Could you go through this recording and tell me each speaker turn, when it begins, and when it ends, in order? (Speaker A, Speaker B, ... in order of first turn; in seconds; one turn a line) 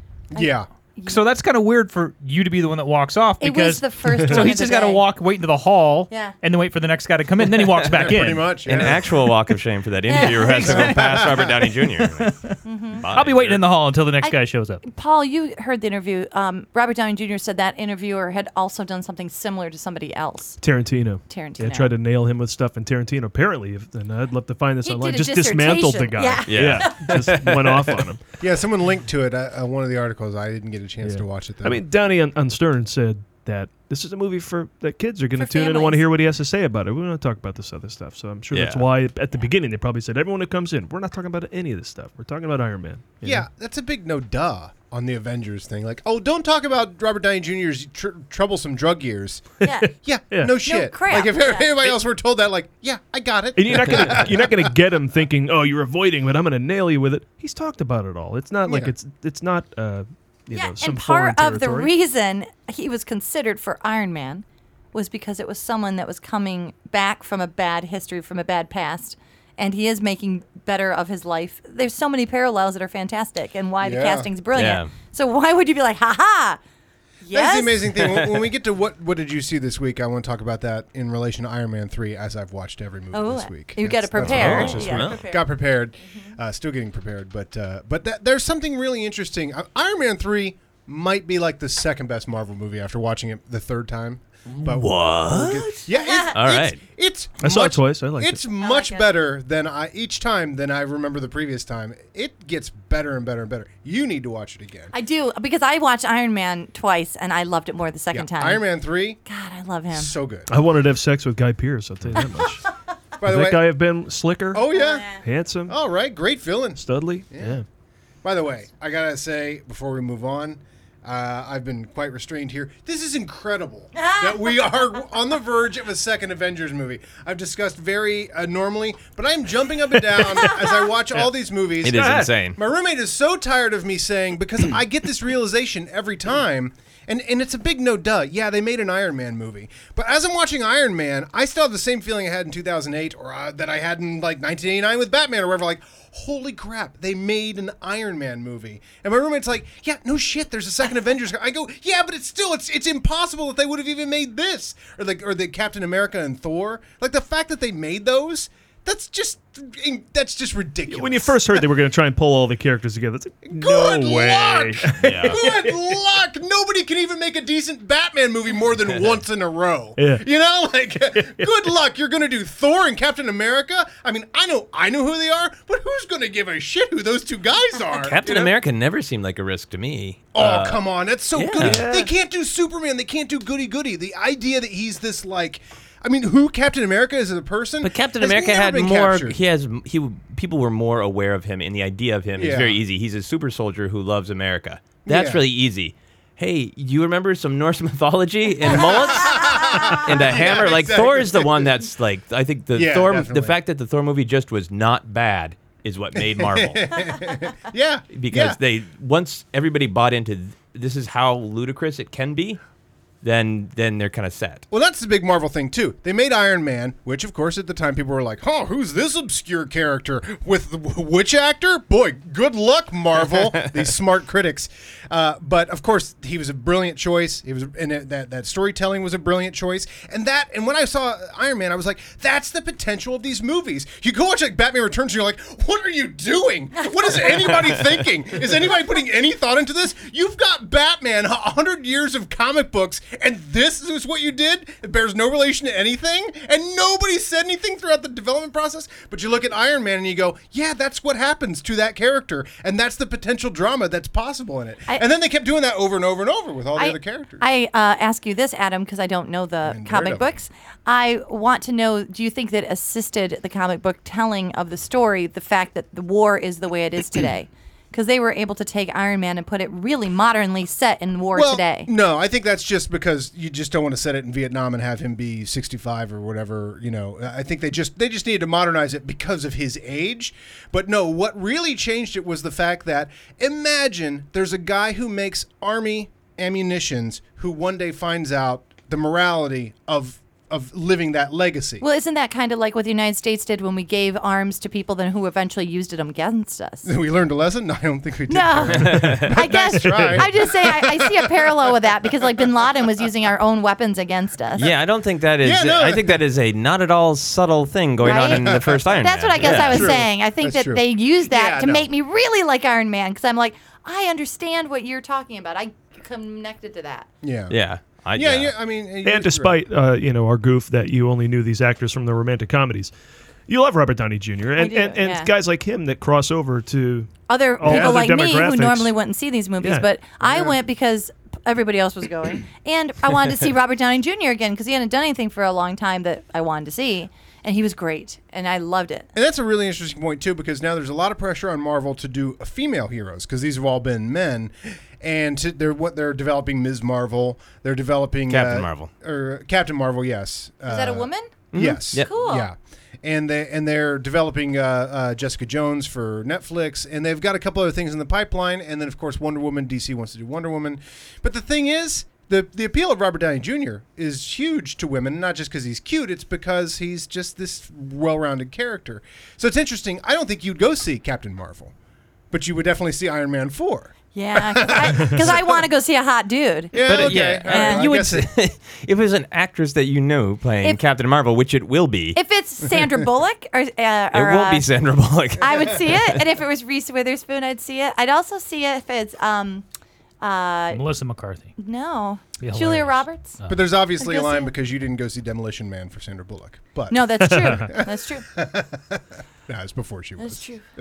Speaker A: 0.3-0.7
Speaker B: 0.3-1.2
Speaker C: 1.1-8.6
Speaker B: 3.4-5.0
Speaker B: 6.1-6.4
Speaker A: 7.9-9.1
Speaker D: 8.7-12.4
Speaker B: 10.1-10.8
Speaker C: 10.1-11.4
Speaker A: 10.5-11.6
Speaker C: 11.9-12.5
Speaker B: 12.6-13.0
Speaker D: 13.0-13.6
Speaker C: 13.1-14.8
Speaker B: 14.2-20.6
Speaker E: 20.6-28.2
Speaker B: 21.3-21.9
Speaker B: 24.8-27.0
Speaker D: 26.5-28.0
Speaker A: 28.4-31.8
Speaker E: 31.0-43.5
Speaker B: 35.4-36.0
Speaker D: 38.5-38.8
Speaker A: 43.2-54.7
Speaker B: 49.6-49.9
Speaker B: 50.6-52.0
Speaker E: 53.6-61.9
Speaker A: 58.7-58.9
Speaker B: 60.5-76.6
Speaker A: 73.8-74.3
Speaker D: 74.5-74.9
Speaker B: 77.2-77.9
Speaker A: 77.3-104.9
Speaker D: 78.0-78.4
Speaker B: 83.1-85.5
Speaker D: 84.2-85.2
Speaker B: 86.1-86.3
Speaker D: 94.6-95.8
Speaker B: 95.9-96.3
Speaker D: 96.3-96.8
Speaker E: 97.4-98.4
Speaker B: 98.6-99.1
Speaker B: 104.9-108.7
Speaker A: 108.1-109.2
Speaker B: 109.2-110.1
Speaker A: 109.9-110.5
Speaker E: 110.5-112.6
Speaker A: 113.2-113.7
Speaker E: 113.2-115.8
Speaker A: 114.5-115.1
Speaker B: 114.7-115.2
Speaker A: 115.7-117.6
Speaker E: 116.8-117.6
Speaker A: 118.2-161.6
Speaker B: 124.0-125.0
Speaker D: 131.8-132.6
Speaker E: 132.0-132.3
Speaker E: 160.9-165.4
Speaker A: 163.5-178.6
Speaker D: 165.0-165.4
Speaker E: 170.0-170.3
Speaker E: 171.2-171.5
Speaker D: 177.9-180.8
Speaker A: 180.3-189.4
Speaker D: 181.3-181.8
Speaker E: 181.6-182.1
Speaker D: 187.8-206.9
Speaker A: 192.4-192.8
Speaker A: 195.1-195.4
Speaker A: 198.7-201.8
Speaker A: 202.7-203.5
Speaker A: 206.2-208.6
Speaker D: 208.1-212.6
Speaker D: 213.2-214.7
Speaker A: 214.7-257.4
Speaker B: 256.8-271.9
Speaker A: 259.6-260.4
Speaker A: 271.3-291.8
Speaker B: 291.8-296.9
Speaker A: 296.9-302.1
Speaker B: 298.3-304.7
Speaker D: 298.7-299.3
Speaker E: 299.8-300.2
Speaker D: 304.6-309.9
Speaker A: 305.4-306.2
Speaker B: 308.0-317.1
Speaker A: 308.1-311.9
Speaker A: 317.2-317.6
Speaker D: 317.5-318.5
Speaker A: 318.1-319.6
Speaker E: 319.0-322.9
Speaker E: 323.5-328.9
Speaker B: 324.6-325.3
Speaker B: 327.3-339.1
Speaker A: 327.6-328.0
Speaker E: 329.6-329.9
Speaker A: 330.2-330.6
Speaker A: 339.1-371.7
Speaker D: 348.3-348.9
Speaker B: 350.7-351.3
Speaker D: 351.5-352.1
Speaker B: 351.9-352.5
Speaker A: 372.3-375.6
Speaker B: 374.1-377.9
Speaker A: 376.7-378.3
Speaker D: 376.9-382.2
Speaker B: 382.1-384.7
Speaker D: 384.1-386.2
Speaker B: 385.4-389.6
Speaker B: 390.2-390.8
Speaker C: 390.7-391.6
Speaker B: 391.6-393.4
Speaker C: 392.4-393.7
Speaker A: 393.5-400.4
Speaker B: 394.0-394.5
Speaker B: 396.9-398.2
Speaker E: 397.3-397.7
Speaker B: 400.2-400.6